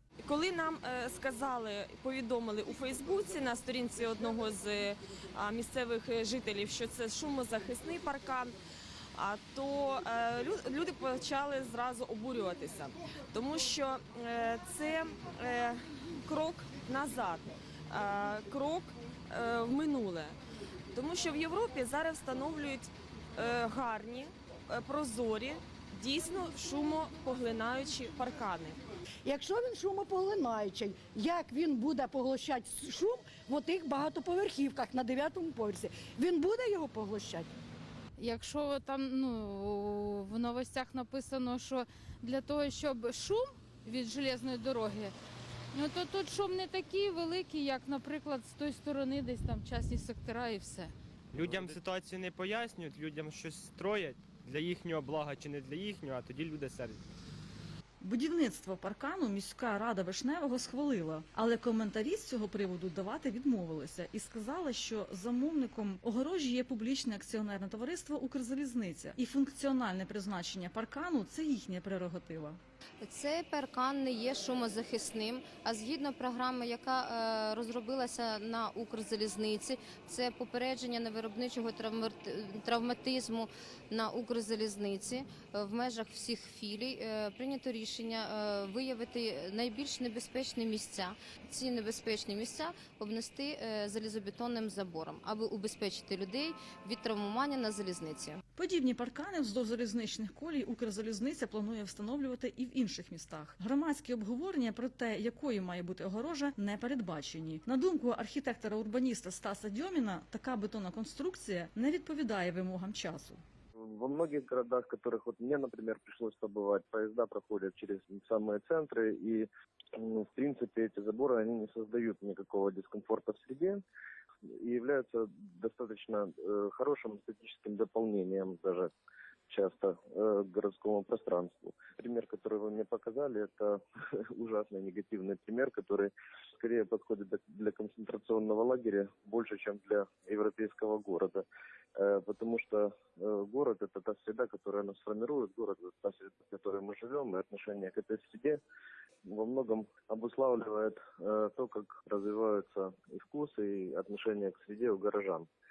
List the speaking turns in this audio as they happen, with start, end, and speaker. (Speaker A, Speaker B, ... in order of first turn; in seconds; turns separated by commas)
Speaker A: 0.2-8.5, Speaker A: 9.1-20.4, Speaker A: 20.9-28.8, Speaker B: 29.2-37.5, Speaker C: 38.2-45.1, Speaker C: 45.7-50.9, Speaker D: 51.3-57.0, Speaker E: 58.0-72.6, Speaker F: 73.0-98.4, Speaker E: 98.5-113.4, Speaker G: 113.8-123.8, Speaker G: 124.5-128.9, Speaker G: 129.5-133.8, Speaker G: 134.4-141.4, Speaker G: 141.9-148.6, Speaker G: 149.2-155.5